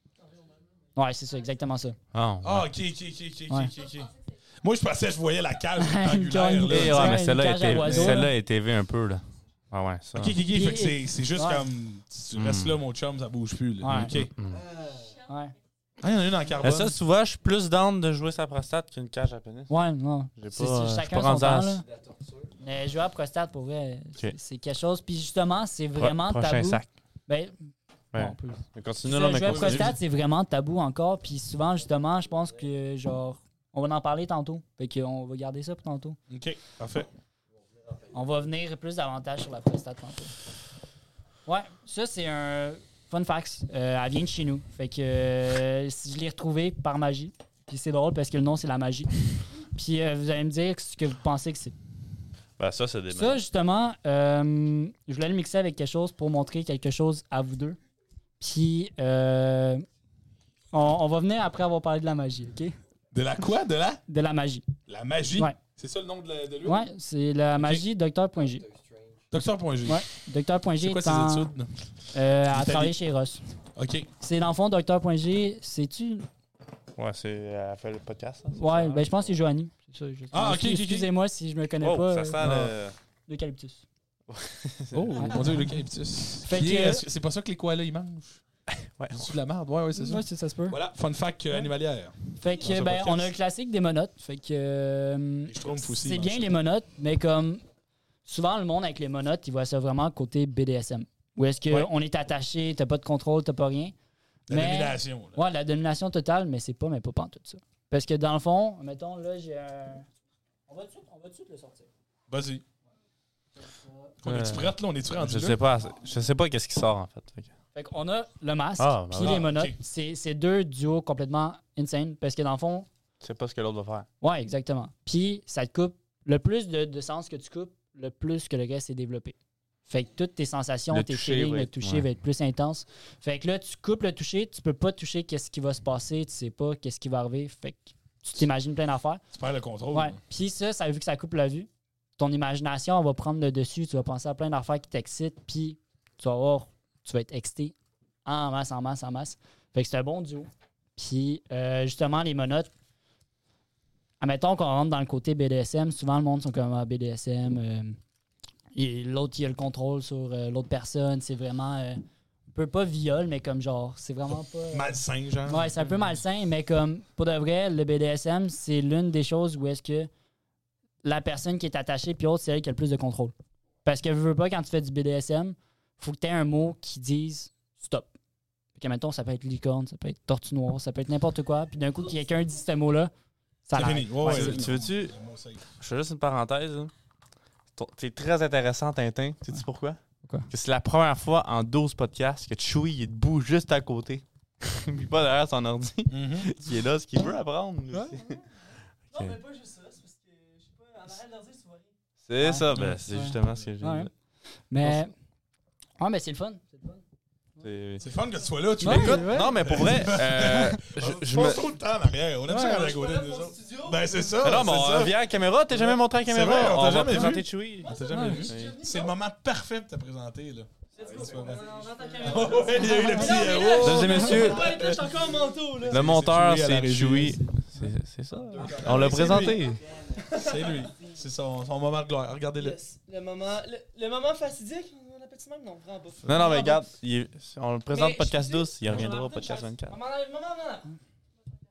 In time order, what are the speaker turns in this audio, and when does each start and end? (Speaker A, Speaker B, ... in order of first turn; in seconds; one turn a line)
Speaker A: 0.9-2.0
Speaker B: 2.1-2.7
Speaker C: 2.4-8.3
Speaker A: 5.8-8.3
Speaker B: 6.7-10.4
Speaker C: 10.2-14.3
Speaker A: 10.5-11.7
Speaker B: 12.3-12.8
Speaker A: 13.8-14.2
Speaker B: 13.9-14.6
Speaker D: 14.4-15.2
Speaker A: 15.3-15.5
Speaker C: 16.0-17.0
Speaker B: 16.6-19.7
Speaker A: 19.7-21.9
Speaker B: 20.4-21.8
Speaker D: 21.9-22.5
Speaker A: 22.6-27.6
Speaker B: 25.9-26.9
Speaker B: 28.1-29.9
Speaker A: 28.1-36.2
Speaker C: 29.4-30.0
Speaker C: 36.3-37.1
Speaker D: 37.6-38.3
Speaker A: 38.1-40.4
Speaker A: 41.5-49.2
Speaker A: 49.7-51.8
Speaker B: 52.6-53.4
Speaker A: 53.1-57.8
Speaker A: 58.4-59.8
Speaker A: 60.7-62.8
Speaker C: 63.1-64.0
Speaker A: 64.1-64.7
Speaker C: 64.9-66.9
Speaker A: 66.6-68.7
Speaker C: 67.6-67.8
Speaker D: 68.4-69.2
Speaker C: 69.3-70.0
Speaker A: 69.9-71.5
Speaker C: 70.8-71.7
Speaker A: 72.1-73.4
Speaker C: 72.5-73.0
Speaker C: 73.8-74.1
Speaker A: 74.2-76.3
Speaker B: 77.0-79.3
Speaker A: 78.5-82.5
Speaker C: 80.3-81.1
Speaker B: 81.8-83.0
Speaker C: 82.4-82.8
Speaker A: 83.3-83.8
Speaker B: 84.3-85.5
Speaker C: 84.9-88.4
Speaker A: 85.2-85.6
Speaker A: 86.4-87.0
Speaker B: 88.7-89.3
Speaker C: 89.1-93.3
Speaker A: 90.0-90.8
Speaker A: 92.4-97.6
Speaker C: 95.5-96.5
Speaker A: 98.3-103.9
Speaker C: 104.5-105.4
Speaker A: 104.5-110.1
Speaker A: 110.7-111.9
Speaker C: 112.3-112.6
Speaker A: 113.6-114.1
Speaker C: 114.2-115.6
Speaker B: 114.2-117.5
Speaker A: 117.8-122.9
Speaker B: 118.8-119.5
Speaker C: 119.2-119.8
Speaker B: 123.2-124.1
Speaker A: 124.2-129.3
Speaker A: 129.9-139.2
Speaker B: 130.9-132.1
Speaker C: 139.3-140.2
Speaker A: 139.9-147.7
Speaker A: 148.3-152.7
Speaker A: 154.2-158.0
Speaker A: 158.8-165.0
Speaker C: 164.7-165.8
Speaker A: 165.5-170.1
Speaker A: 171.0-173.3
Speaker A: 173.8-178.2
Speaker A: 178.8-183.1
Speaker A: 183.7-184.7
Speaker C: 183.7-185.6
Speaker B: 184.3-185.1
Speaker B: 185.8-186.9
Speaker B: 187.8-198.4
Speaker C: 196.1-196.5
Speaker A: 197.9-198.4
Speaker E: 199.1-201.9
Speaker B: 202.2-204.1
Speaker A: 202.4-204.1
Speaker A: 204.7-205.1
Speaker A: 206.0-207.0
Speaker B: 207.6-208.0
Speaker C: 208.0-215.2
Speaker A: 208.8-209.6
Speaker B: 208.8-211.7
Speaker A: 212.5-212.9
Speaker E: 212.5-214.2
Speaker B: 214.4-218.8
Speaker C: 215.7-221.6
Speaker E: 217.8-219.2
Speaker A: 218.1-218.5
Speaker E: 221.0-226.1
Speaker D: 221.0-223.0
Speaker C: 222.2-225.2
Speaker A: 222.7-224.5
Speaker B: 223.7-224.8
Speaker C: 225.8-227.5
Speaker B: 225.9-229.8
Speaker D: 228.4-230.2
Speaker C: 228.6-229.7
Speaker E: 230.2-231.1
Speaker C: 230.3-232.8
Speaker E: 232.6-236.9
Speaker B: 236.2-240.0
Speaker E: 237.9-240.9